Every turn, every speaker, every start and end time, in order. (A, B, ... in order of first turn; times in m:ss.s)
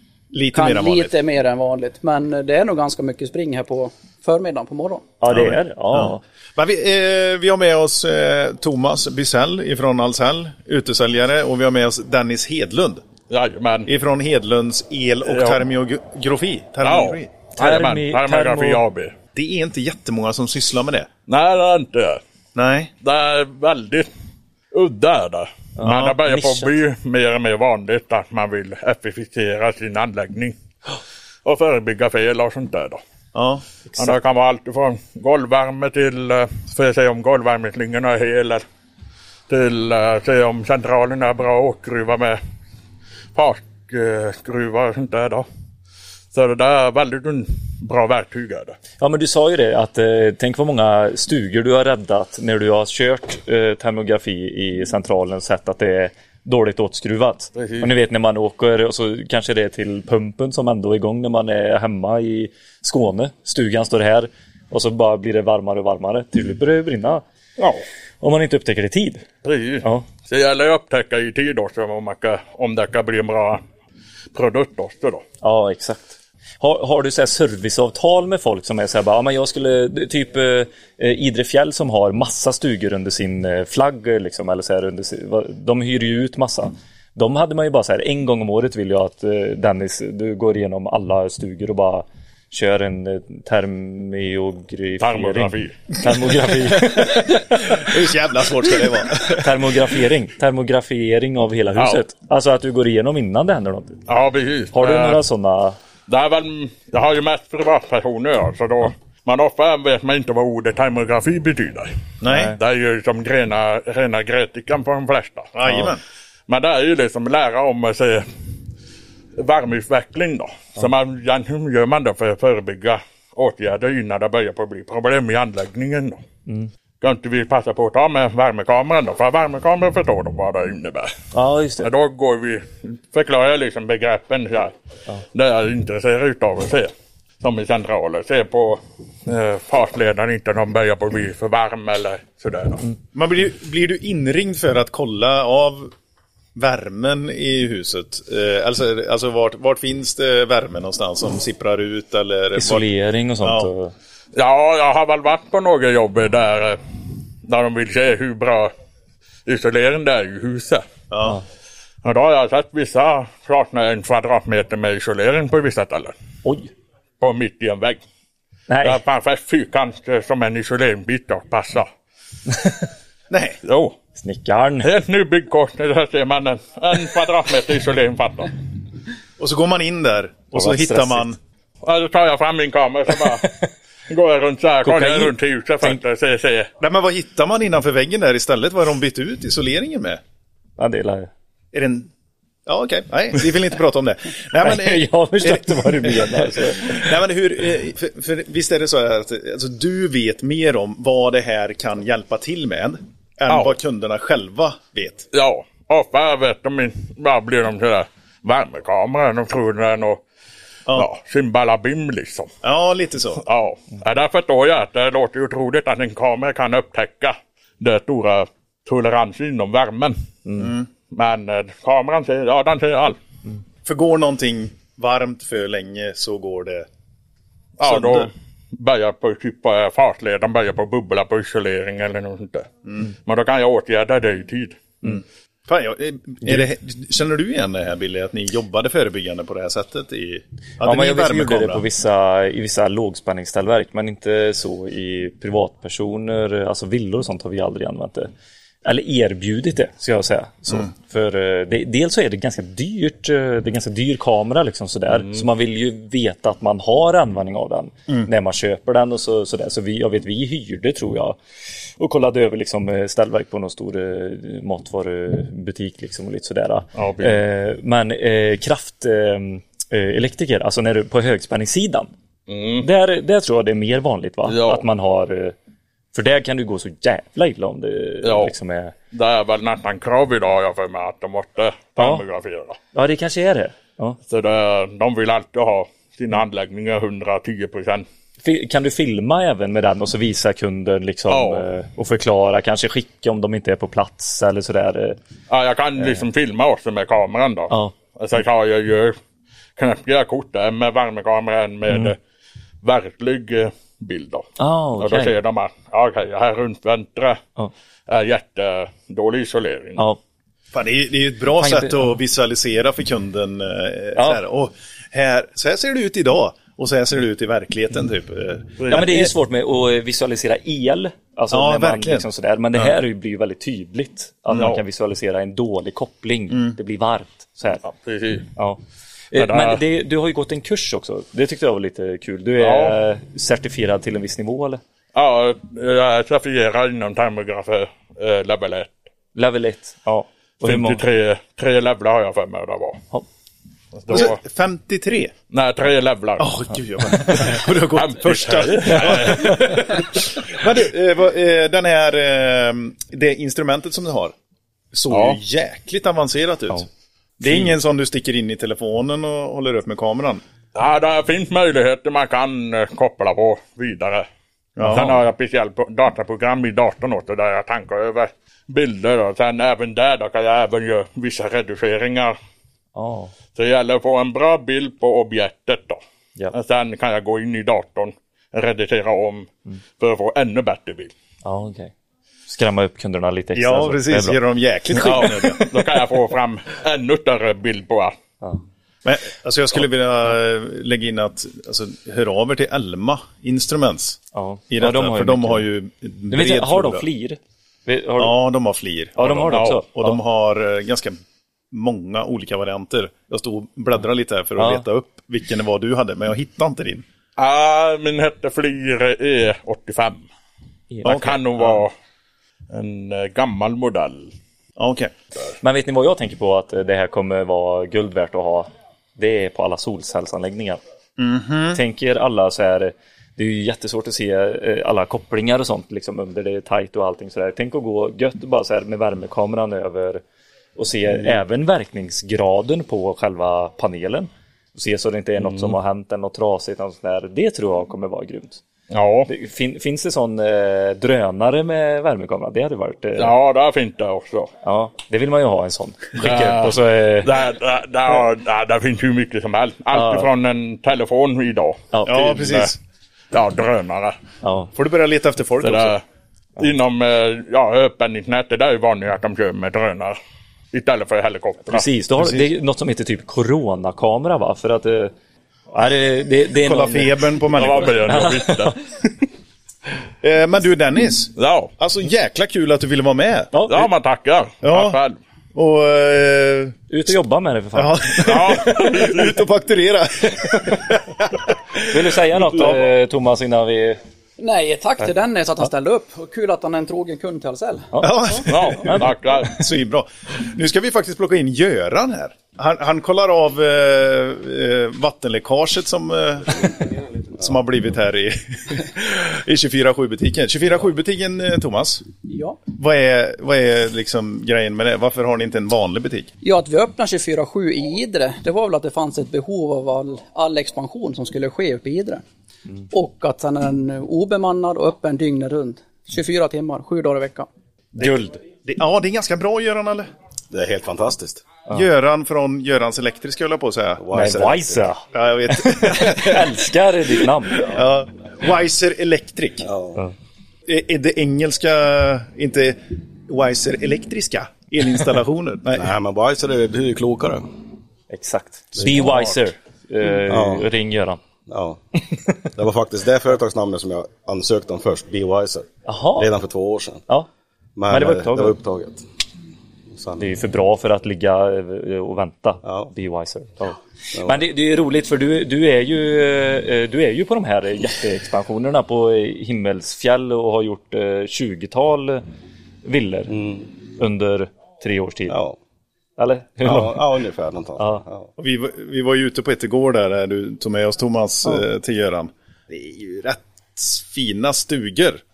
0:00.3-0:01.1 A
0:00.5-0:05.0 B
0:05.2-0:06.2 C
0:05.3-0:13.0 A
0:13.3-0:13.9 D
0:13.9-0:17.3 A
0:15.3-0:15.6 D
0:16.8-0:19.1 D
0:17.6-0:18.8 C
0:19.3-0:21.1 A
0:21.3-0:22.2 D
0:22.5-0:22.9 A
0:23.0-0:24.1 D
0:24.7-0:30.5 D
0:25.8-0:26.7 C
0:31.4-0:33.0 D
0:33.3-0:33.6 A
0:33.9-0:34.2 C
0:34.0-0:38.6 D
0:39.5-0:42.4 D
0:43.3-0:45.4 D
0:46.3-0:48.8 D
0:49.0-1:07.2 C
0:57.6-0:57.9 D
1:07.6-1:07.8 D
1:08.2-1:09.2 C
1:09.4-1:13.6 D
1:14.3-1:15.2 D
1:15.4-1:37.9 C
1:35.0-1:35.8 D
1:36.9-1:39.8 A
1:39.3-1:44.0 C
1:41.8-1:42.0 D
1:44.1-1:45.2 D
1:44.7-1:45.8 C
1:46.1-1:51.9 D
1:52.2-1:52.5 A
1:52.3-1:52.6 C
1:52.5-1:55.5 D
1:55.5-1:56.0 A
1:56.5-1:58.2 D
1:59.4-2:06.2 D
2:07.0-2:11.1 D
2:11.3-2:11.9 C
2:11.8-2:14.7 D
2:15.3-2:22.8 D
2:23.1-2:25.9 A
2:26.6-2:32.9 A
2:32.6-2:33.9 C
2:33.4-2:33.7 A
2:34.3-2:36.8 D
2:37.4-2:38.7 D
2:39.4-2:40.8 D
2:41.1-2:41.4 A
2:42.0-2:46.1 D
2:46.4-2:46.7 C
2:47.2-2:48.0 D
2:48.7-2:49.0 C
2:48.8-2:51.9 D
2:53.3-2:53.6 A
2:53.6-2:53.9 D
2:54.2-2:54.9 C
2:54.8-2:58.5 D
2:59.4-3:01.4 A
3:00.5-3:01.3 C
3:01.8-3:03.5 D
3:04.1-3:06.7 D
3:04.8-3:06.0 C
3:06.8-3:10.2 A
3:10.8-3:11.3 C
3:11.7-3:12.1 A
3:12.6-3:25.3 A
3:14.6-3:17.1 C
3:25.3-3:30.2 D
3:30.9-3:32.5 D
3:32.6-3:33.4 A
3:33.4-3:40.2 D
3:40.6-3:40.9 A
3:41.1-3:43.2 D
3:43.8-3:46.9 A
3:47.8-3:52.7 D
3:47.8-3:48.3 A
3:53.2-3:54.9 D
3:55.0-4:01.8 A
4:00.8-4:08.3 C
4:08.8-4:21.4 C
4:22.0-4:32.1 C
4:27.0-4:27.4 D
4:32.5-4:32.9 D
4:32.8-4:35.5 C
4:34.4-4:34.8 D
4:36.1-4:38.9 C
4:38.2-4:38.5 D
4:39.1-4:42.8 D
4:42.0-4:42.2 C
4:42.9-4:44.2 C
4:44.3-4:48.0 D
4:48.4-4:55.2 C
4:51.3-4:51.7 D
4:55.5-4:59.2 D
4:56.0-4:56.2 C
4:59.8-5:02.2 D
5:01.9-5:02.1 C
5:02.8-5:04.4 D
5:04.6-5:05.3 C
5:05.0-5:07.4 D
5:08.1-5:10.0 D
5:10.7-5:19.1 A
5:11.6-5:12.1 C
5:14.1-5:14.4 C
5:18.8-5:19.1 D
5:18.9-5:27.8 C
5:21.5-5:22.9 A
5:24.5-5:24.8 D
5:26.5-5:26.8 A
5:27.8-5:28.5 D
5:29.3-5:34.8 C
5:29.4-5:29.8 D
5:32.6-5:33.0 D
5:35.1-5:38.9 D
5:39.3-5:41.0 C
5:40.6-5:43.0 D
5:44.0-5:44.4 D
5:44.1-5:45.3 A
5:45.5-5:46.5 D
5:46.4-5:54.3 A
5:47.9-5:49.7 D
5:54.9-5:56.9 A
5:55.1-5:55.4 D
5:57.4-6:00.4 A
6:00.7-6:04.2 D
6:04.8-6:05.2 A
6:04.8-6:12.4 D
6:12.9-6:13.3 C
6:13.5-6:16.0 D
6:16.5-6:21.1 D
6:21.4-6:21.9 C
6:22.5-6:24.4 C
6:23.5-6:25.7 A
6:25.0-6:28.1 D
6:29.0-6:37.0 A
6:34.3-6:35.7 C
6:36.3-6:38.4 C
6:38.2-6:41.2 A
6:39.2-6:40.2 C
6:39.4-6:39.8 D
6:41.7-6:47.0 A
6:44.6-6:44.8 C
6:47.4-6:50.2 D
6:51.0-6:51.9 D
6:51.0-6:51.8 A
6:52.7-6:54.3 D
6:54.8-6:55.1 A
6:55.6-7:00.8 C
7:01.2-7:01.8 A
7:01.7-7:10.2 C
7:10.8-7:18.6 C
7:18.9-7:19.3 D
7:19.3-7:23.3 C
7:23.2-7:24.5 D
7:24.6-7:27.3 C
7:26.2-7:32.7 D
7:29.9-7:30.3 C
7:31.9-7:32.2 C
7:32.0-7:32.8 A
7:33.3-7:34.2 D
7:34.4-7:34.7 C
7:34.7-7:35.9 A
7:35.6-7:36.0 D
7:36.6-7:40.2 D
7:40.7-7:41.8 D
7:41.7-7:45.1 C
7:45.7-7:47.2 C
7:46.6-7:48.0 A
7:47.5-7:48.8 D
7:47.7-7:48.8 C
7:50.2-7:53.5 A
7:51.4-7:51.7 D
7:53.5-7:53.9 C
7:53.6-7:55.2 D
7:54.6-7:55.0 A
7:55.5-7:56.8 A
7:56.9-7:58.9 C
7:57.7-8:02.9 A
7:58.2-7:59.3 D
8:00.5-8:00.7 C
8:01.9-8:04.0 C
8:04.4-8:07.9 B
8:07.9-8:09.1 C
8:08.0-8:22.0 A
8:08.4-8:09.6 D
8:22.2-8:22.6 B
8:22.7-8:26.3 A
8:26.4-8:32.2 B
8:32.9-8:37.5 B
8:37.9-8:40.1 A
8:38.0-8:38.4 C
8:40.5-8:41.4 E
8:41.7-8:44.0 A
8:44.0-8:44.9 E
8:44.1-8:47.7 C
8:45.1-8:46.5 A
8:47.6-8:49.7 A
8:49.6-8:50.0 E
8:50.7-8:55.9 A
8:55.7-8:57.4 E
8:58.1-9:01.2 C
8:58.8-8:59.1 E
9:00.3-9:00.6 E
9:01.5-9:01.8 E
9:02.5-9:07.0 E
9:05.8-9:06.3 C
9:07.8-9:09.0 E
9:07.9-9:08.6 C
9:09.9-9:10.3 E
9:10.2-9:22.2 C
9:12.6-9:12.9 E
9:14.1-9:14.4 E
9:22.8-9:23.4 C
9:23.3-9:23.7 E
9:24.0-9:25.4 C
9:25.3-9:25.6 E
9:26.2-9:27.1 C
9:26.6-9:28.3 E
9:27.8-9:28.0 C
9:28.4-9:35.2 A